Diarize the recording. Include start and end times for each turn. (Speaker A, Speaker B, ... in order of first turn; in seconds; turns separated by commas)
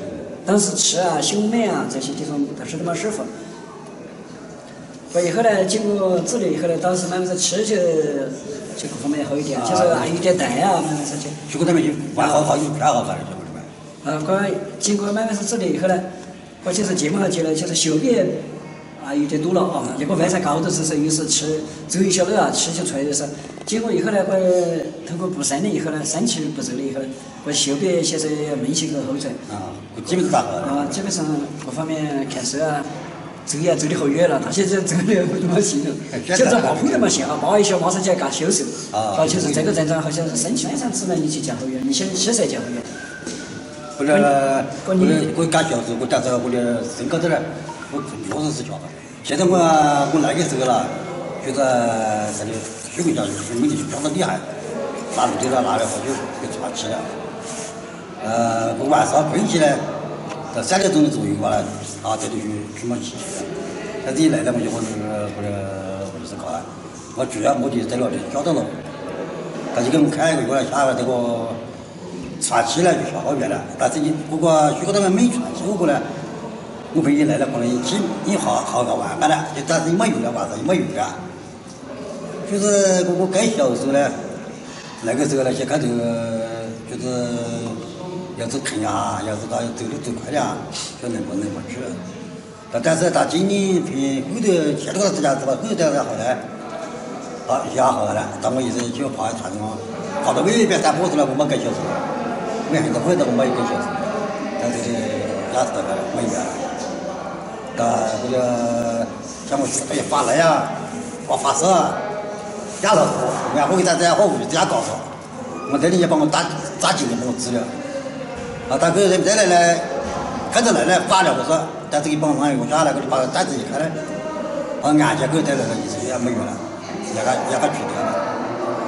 Speaker A: 0.4-3.3, Speaker A: 5.1-11.4, Speaker B: 9.6-10.5, Speaker B: 11.5-13.7, Speaker A: 14.0-16.1, Speaker A: 16.6-18.5, Speaker A: 19.0-29.4, Speaker B: 29.5-31.0, Speaker A: 30.6-32.9, Speaker A: 33.5-42.9, Speaker B: 36.1-37.2, Speaker B: 38.9-39.8, Speaker B: 44.0-54.4, Speaker A: 44.8-45.2, Speaker B: 55.1-57.0, Speaker B: 58.2-59.8, Speaker B: 60.5-63.5, Speaker B: 64.0-68.8, Speaker B: 69.7-71.6, Speaker B: 72.4-76.0, Speaker B: 76.9-81.2, Speaker B: 82.4-84.1, Speaker B: 85.0-87.8, Speaker B: 88.3-92.0, Speaker B: 92.7-96.4, Speaker B: 97.5-102.0, Speaker B: 102.7-104.1, Speaker B: 104.6-106.6, Speaker B: 107.8-110.7, Speaker B: 111.2-112.0, Speaker B: 112.8-115.1, Speaker B: 115.7-117.7, Speaker B: 118.7-119.9, Speaker B: 120.5-123.9, Speaker B: 124.8-128.2